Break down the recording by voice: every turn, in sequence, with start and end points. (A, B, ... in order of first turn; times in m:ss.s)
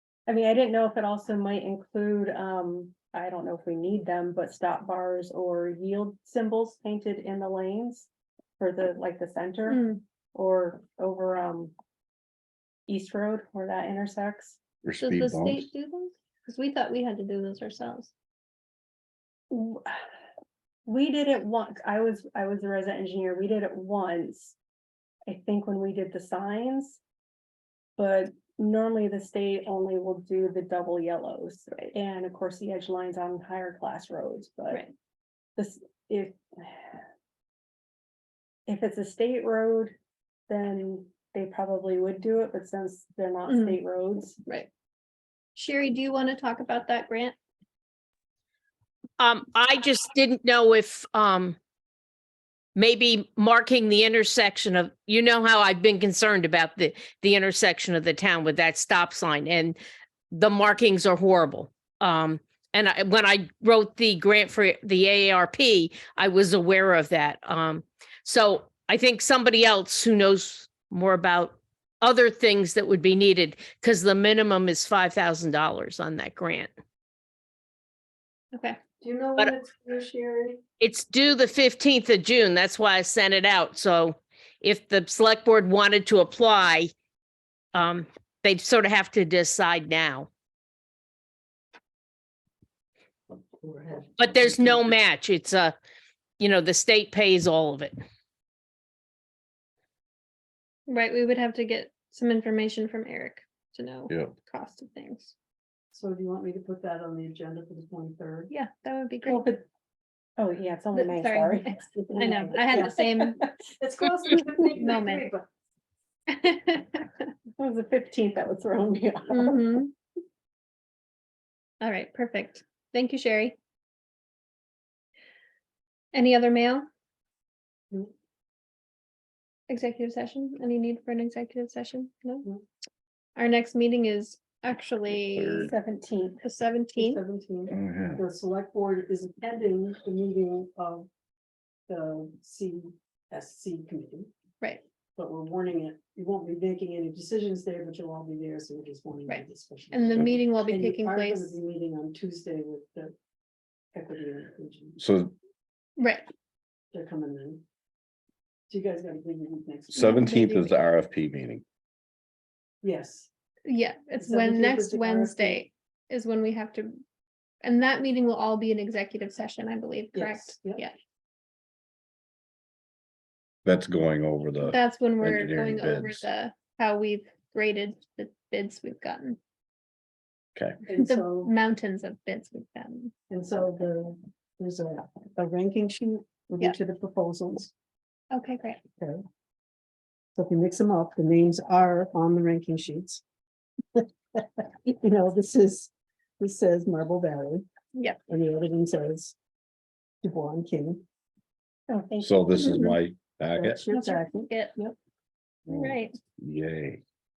0:00.3-0:11.7 A
0:09.7-0:10.0 B
0:12.9-0:14.6 A
0:14.8-0:15.7 C
0:15.0-0:18.1 B
0:19.5-0:20.0 A
0:20.9-0:24.6 A
0:25.3-0:27.0 A
0:28.0-0:34.8 A
0:35.6-0:37.0 A
0:38.7-0:40.0 A
0:40.5-0:44.4 A
0:43.5-0:43.8 B
0:45.6-0:47.4 B
0:49.2-0:51.6 D
0:52.8-0:59.8 D
1:00.3-1:16.7 D
1:18.5-1:18.8 B
1:19.0-1:20.6 E
1:20.8-1:26.9 D
1:27.7-1:30.3 D
1:33.6-1:34.9 E
1:34.2-1:35.7 D
1:36.4-1:38.0 D
1:40.9-1:45.3 B
1:44.1-1:44.4 C
1:45.9-1:48.5 E
1:48.5-1:49.4 B
1:49.2-1:49.6 A
1:50.4-1:53.5 A
1:50.9-1:53.4 B
1:52.0-1:53.0 E
1:53.8-1:55.5 E
1:54.8-1:55.3 B
1:56.3-1:57.0 B
1:57.6-1:59.8 A
1:59.3-1:59.9 B
2:01.8-2:03.6 B
2:06.1-2:06.9 B
2:09.7-2:12.5 B
2:13.4-2:15.7 B
2:15.2-2:15.7 C
2:15.6-2:16.4 A
2:16.4-2:17.2 B
2:17.0-2:21.1 E
2:17.7-2:18.2 C
2:21.9-2:24.3 E
2:25.2-2:33.1 E
2:29.3-2:31.6 B
2:33.9-2:35.0 E
2:35.0-2:35.3 C
2:36.0-2:36.3 B
2:36.9-2:37.6 E
2:38.7-2:40.2 E
2:39.9-2:41.6 C
2:40.0-2:40.8 B
2:42.8-2:43.3 E
2:43.7-2:47.0 B
2:44.2-2:45.6 E
2:47.6-2:50.9 B
2:50.1-2:50.8 E
2:53.6-2:56.3 C
2:54.7-2:59.4 B
3:00.6-3:00.8 C
3:00.9-3:01.5 E
3:00.9-3:03.1 B
3:03.3-3:07.7 E
3:08.3-3:08.8 B
3:10.4-3:13.2 E
3:14.0-3:17.7 E
3:18.3-3:19.4 E
3:20.2-3:21.0 E
3:21.9-3:22.9 A
3:22.2-3:23.8 C
3:23.6-3:25.0 E
3:23.9-3:24.8 B
3:25.7-3:26.2 B
3:25.7-3:27.0 C